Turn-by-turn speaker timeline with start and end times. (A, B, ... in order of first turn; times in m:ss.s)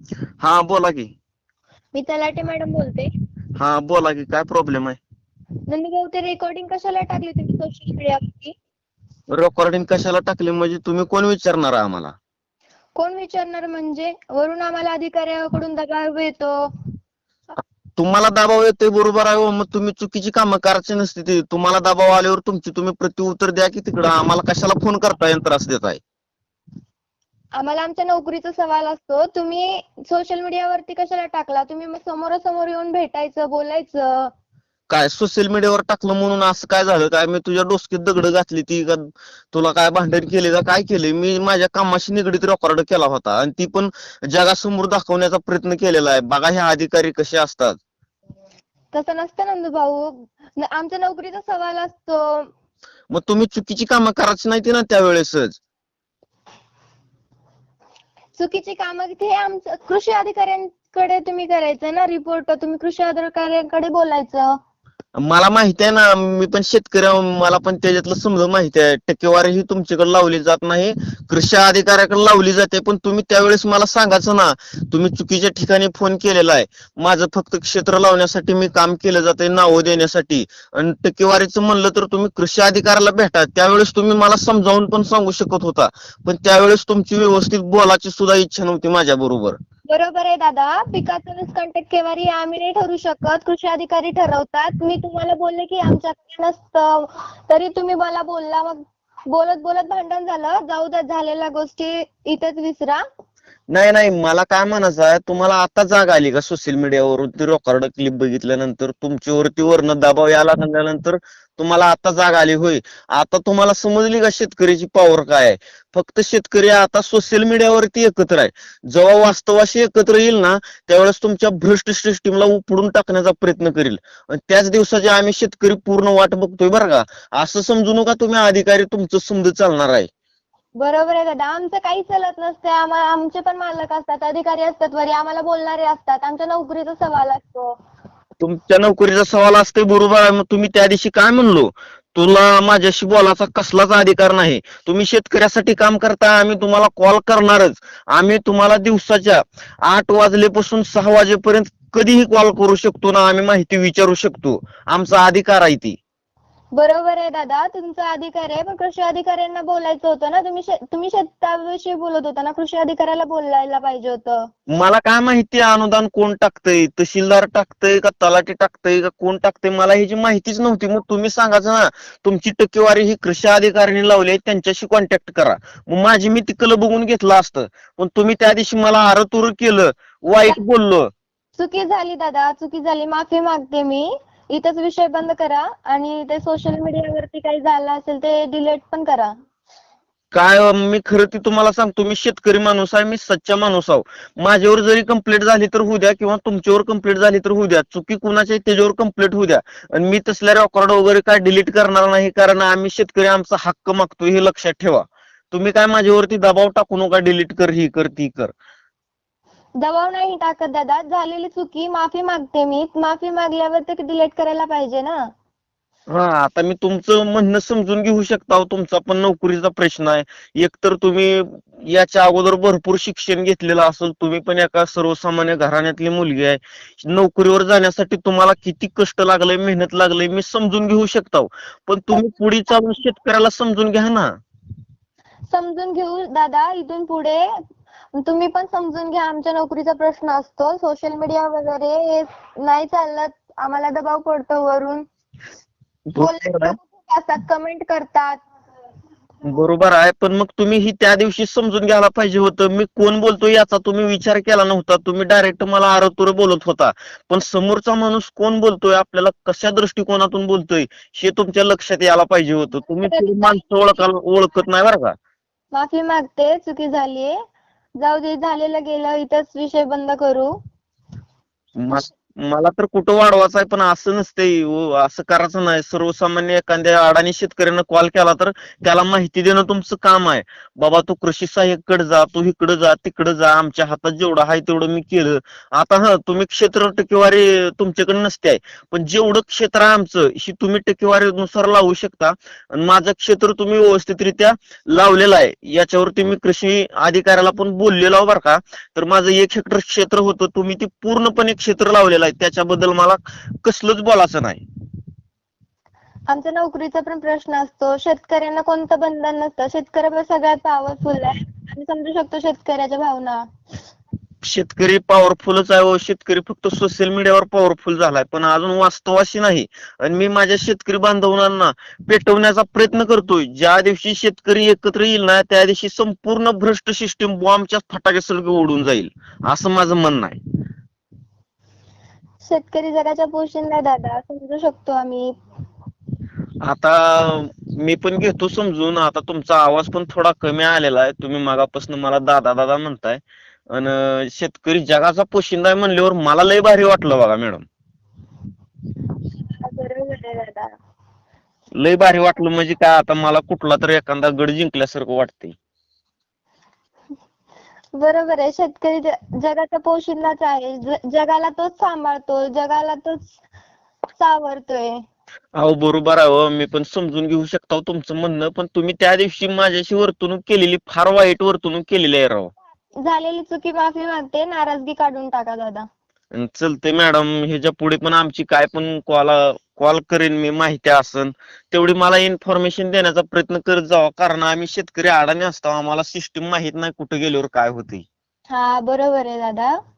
0:00.4-0:01.1 A
0:01.9-0:03.1 B
0:03.6-0:05.0 A
0:05.7-0:08.5 B
0:09.3-0:12.1 A
0:13.0-0:16.6 B
0:18.0-0:26.0 A
0:27.6-0:34.3 B
0:34.9-0:47.8 A
0:48.9-0:52.5 B
0:53.1-0:55.6 A
0:58.4-1:04.5 B
1:05.2-1:29.6 A
1:29.9-1:43.0 B
1:43.7-2:10.1 A
2:10.8-2:17.7 B
2:18.4-2:36.0 A
2:36.7-2:44.4 B
2:44.7-3:01.1 A
3:01.6-3:09.3 B
3:10.3-3:28.5 A
3:29.8-3:35.2 B
3:36.1-3:54.3 A
3:55.5-3:57.4 B
3:58.2-4:05.0 B
4:06.1-4:06.8 A
4:06.2-4:08.4 B
4:09.4-4:25.2 A
4:22.9-4:24.0 B
4:25.7-4:27.3 B
4:28.0-4:30.5 B
4:31.8-5:04.6 A
5:06.3-5:13.4 B
5:14.4-5:30.4 A
5:32.4-5:35.3 B
5:36.6-5:47.6 A
5:49.4-5:50.7 B
5:51.8-5:55.6 A
5:58.0-6:03.3 B
6:04.2-6:05.0 B
6:05.6-6:12.5 A
6:13.0-6:15.8 B
6:16.3-6:28.0 A
6:28.5-6:29.7 B